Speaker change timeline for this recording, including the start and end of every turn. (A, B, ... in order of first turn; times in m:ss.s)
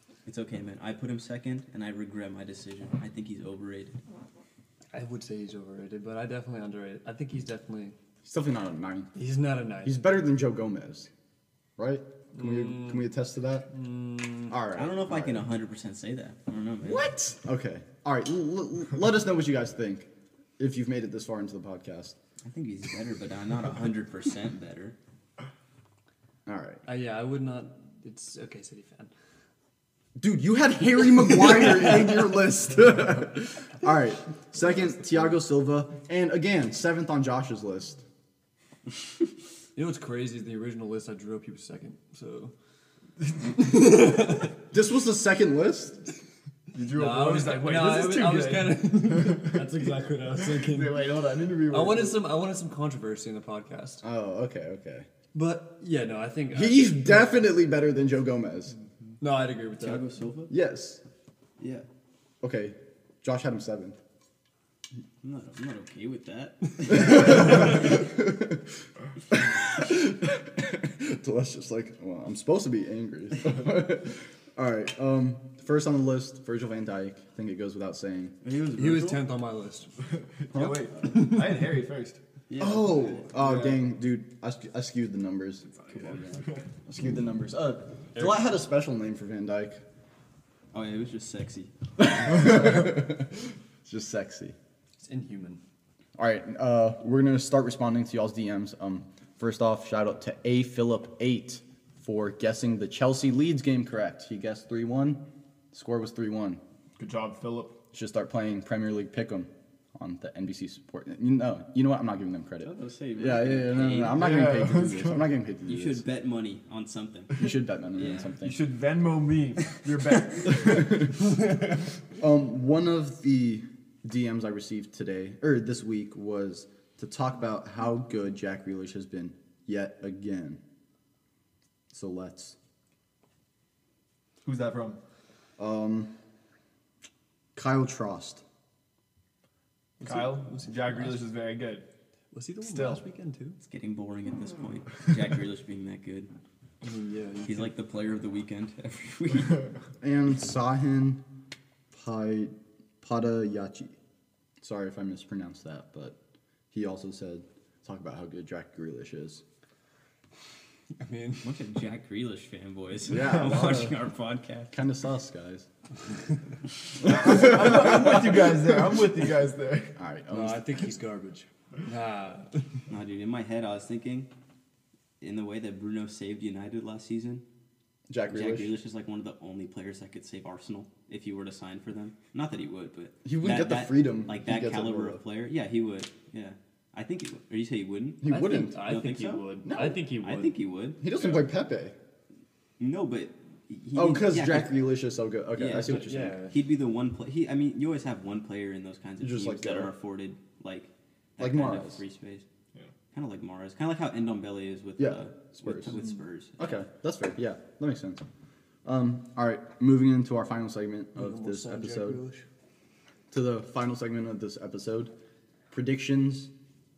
0:00.2-0:04.0 A
0:04.9-0:07.9 B
0:08.2-0:09.1 C
0:09.1-0:10.0 B
0:09.8-0:11.1 C
0:11.8-0:13.7 C
0:12.4-0:13.0 B
0:13.7-0:14.5 B
0:14.5-0:15.5 C
0:14.7-0:17.1 A
0:16.9-0:20.1 C
0:20.6-0:22.2 C
0:22.4-0:25.0 A
0:26.4-0:26.8 C
0:26.8-0:29.1 B
0:30.2-0:38.0 C
0:39.8-0:42.5 B
0:43.4-0:44.5 B
0:44.7-0:46.0 C
0:46.7-0:49.6 D
0:46.9-0:51.1 B
0:50.4-0:52.2 D
0:51.7-0:54.0 B
0:54.0-0:55.1 C
0:55.3-0:57.2 B
0:56.5-0:58.7 C
0:59.2-1:00.0 B
0:59.8-1:00.5 A
1:00.5-1:01.0 C
1:01.6-1:01.9 A
1:02.4-1:04.0 C
1:05.2-1:07.7 A
1:06.9-1:08.8 C
1:09.3-1:18.3 C
1:18.4-1:19.2 A
1:18.8-1:19.9 B
1:20.4-1:22.2 D
1:20.5-1:20.9 C
1:21.1-1:21.4 B
1:22.5-1:23.3 A
1:22.6-1:29.8 C
1:23.4-1:23.7 D
1:25.7-1:26.6 D
1:30.7-1:32.6 A
1:32.0-1:34.6 C
1:35.0-1:35.6 B
1:36.2-1:46.6 C
1:47.0-1:47.8 D
1:47.9-1:56.0 C
1:52.6-1:54.3 A
1:54.1-1:55.2 D
1:55.6-1:58.3 A
1:57.4-1:58.6 C
1:58.4-2:01.0 D
2:00.5-2:01.4 C
2:02.2-2:10.6 C
2:11.9-2:12.6 C
2:14.4-2:15.0 D
2:15.6-2:16.1 C
2:17.5-2:18.4 C
2:20.0-2:21.2 B
2:20.0-2:21.8 D
2:22.3-2:23.6 B
2:22.6-2:23.0 D
2:23.6-2:26.3 A
2:26.8-2:27.7 B
2:27.4-2:29.7 A
2:30.0-2:31.2 C
2:31.9-2:33.9 C
2:34.6-2:36.2 C
2:36.7-2:39.4 C
2:41.0-2:41.5 B
2:41.4-2:44.7 A
2:43.1-2:44.0 C
2:44.7-2:45.7 C
2:47.0-2:49.9 D
2:47.0-2:48.2 C
2:50.0-2:50.7 C
2:50.3-2:52.7 B
2:52.9-2:54.3 A
2:55.2-2:57.4 A
2:58.1-2:58.7 C
2:58.3-3:08.2 A
3:03.2-3:05.2 C
3:08.2-3:08.8 C
3:08.3-3:10.6 B
3:08.8-3:09.5 A
3:09.6-3:10.0 C
3:10.2-3:11.0 A
3:11.0-3:11.9 C
3:12.8-3:14.8 A
3:13.9-3:16.4 C
3:15.6-3:22.4 A
3:15.7-3:16.6 B
3:19.2-3:19.9 C
3:21.4-3:22.0 C
3:23.1-3:26.8 A
3:25.0-3:26.0 C
3:26.6-3:28.2 C
3:28.8-3:32.2 C
3:31.2-3:32.4 B
3:33.3-3:35.1 C
3:35.7-3:36.5 C